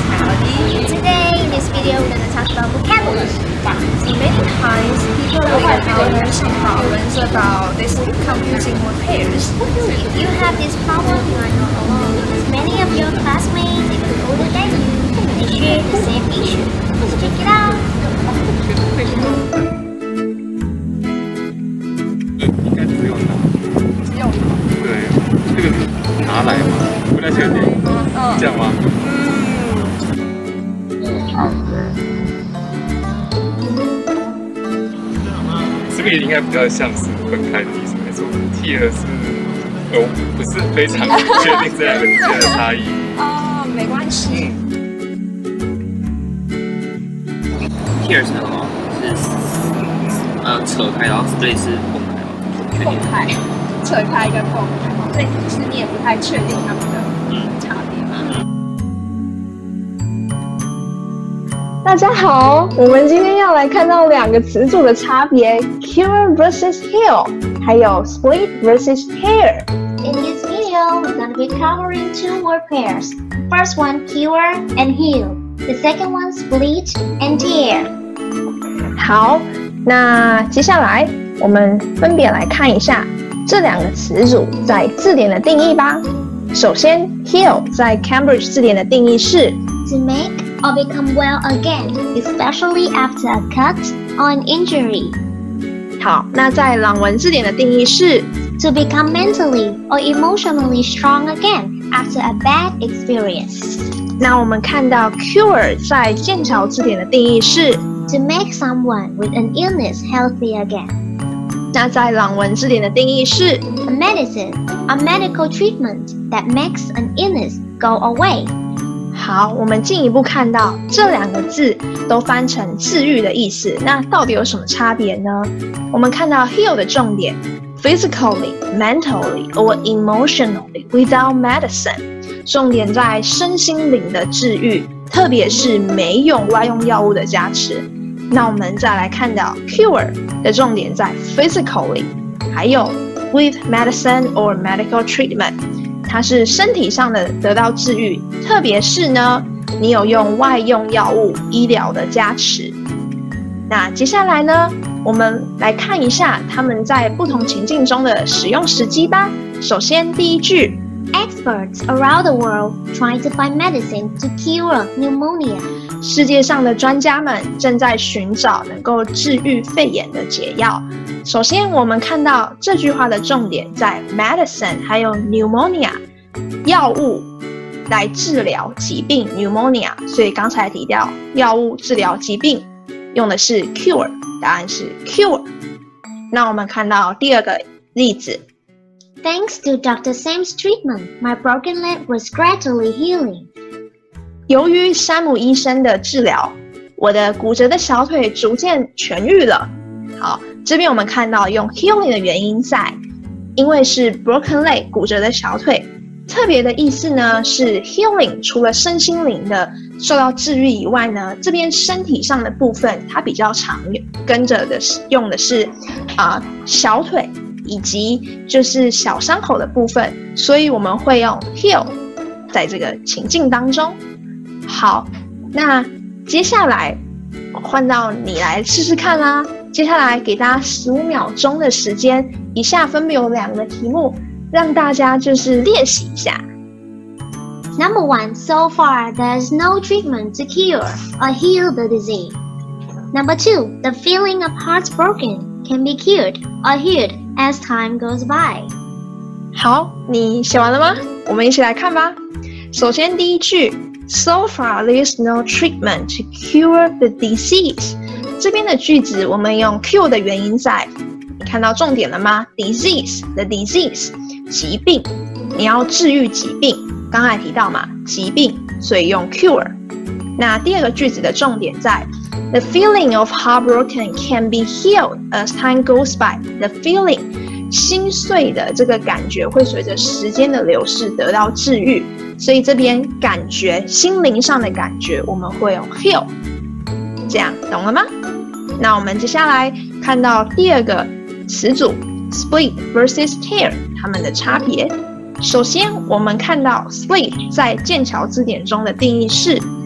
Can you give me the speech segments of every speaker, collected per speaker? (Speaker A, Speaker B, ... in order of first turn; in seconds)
Speaker A: 0.6-3.4, 9.9-17.9, 70.0-77.9, 89.8-95.2, 98.6-103.9, 108.1-111.0, 113.8-118.5, 161.1-165.7, 189.2-193.5, 237.8-242.4, 243.1-248.7
Speaker B: 0.7-1.1, 3.0-3.8, 5.4-8.5, 9.6-10.5, 12.0-12.4, 18.3-19.4, 24.1-24.6, 28.1-28.4, 29.2-29.9, 43.3-44.4, 52.8-53.3, 53.8-58.3
Speaker C: 4.0-9.6, 61.8-69.7, 79.0-89.6, 96.0-98.3, 104.2-107.8, 111.7-113.7, 119.1-145.6, 146.1-152.8, 153.7-160.8, 166.0-176.0, 176.6-177.3, 177.9-185.5, 186.3-188.4, 194.5-203.0, 203.6-222.0, 222.5-224.0, 224.7-227.0, 227.5-236.4, 249.5-252.2, 252.7-269.8, 270.4-286.3, 287.3-288.1, 288.8-299.7
Speaker D: 22.5-23.5, 24.8-27.8, 28.3-28.9, 35.9-43.2
Speaker E: 48.0-53.3, 57.3-57.6